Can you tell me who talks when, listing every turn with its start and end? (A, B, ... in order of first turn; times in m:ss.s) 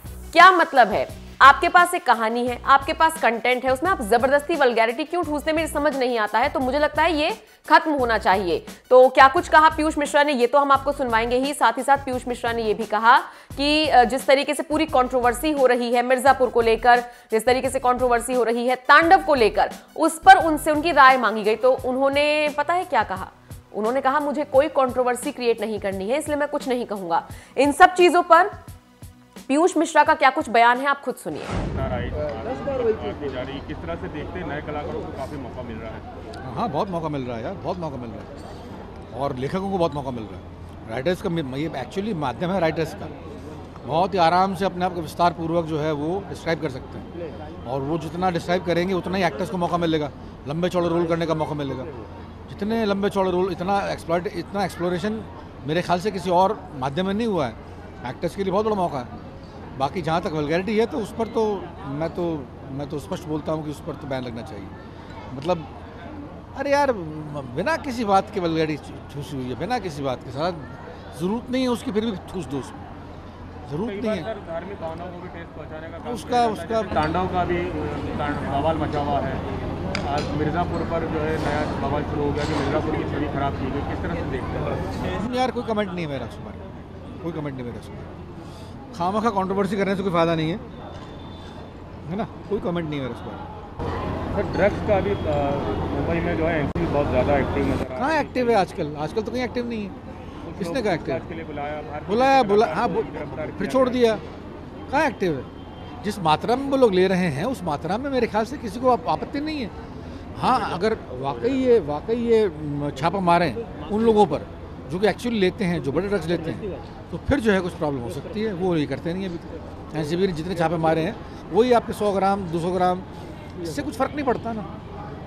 0:00.3-0:28.5 A
0:29.5-0:31.6 A
0:31.7-0:36.1 B
0:36.4-0:38.3 C
0:39.1-0:43.1 C
0:43.8-0:47.1 C
0:47.6-0:51.9 C
0:52.5-0:59.1 C
0:59.8-1:04.7 C
1:05.3-1:05.7 C
1:06.5-1:12.8 C
1:13.6-1:14.3 C
1:13.8-1:19.4 B
1:16.0-1:17.0 C
1:20.0-1:25.0 B
1:25.0-1:26.6 C
1:27.2-1:28.1 C
1:28.9-1:30.6 C
1:32.0-1:33.4 C
1:34.3-1:38.7 B
1:37.9-1:39.9 C
1:40.4-1:44.2 B
1:40.6-1:41.2 C
1:42.0-1:44.2 C
1:44.9-1:45.5 C
1:46.0-1:49.7 C
1:50.3-2:03.0 C
2:03.6-2:04.7 C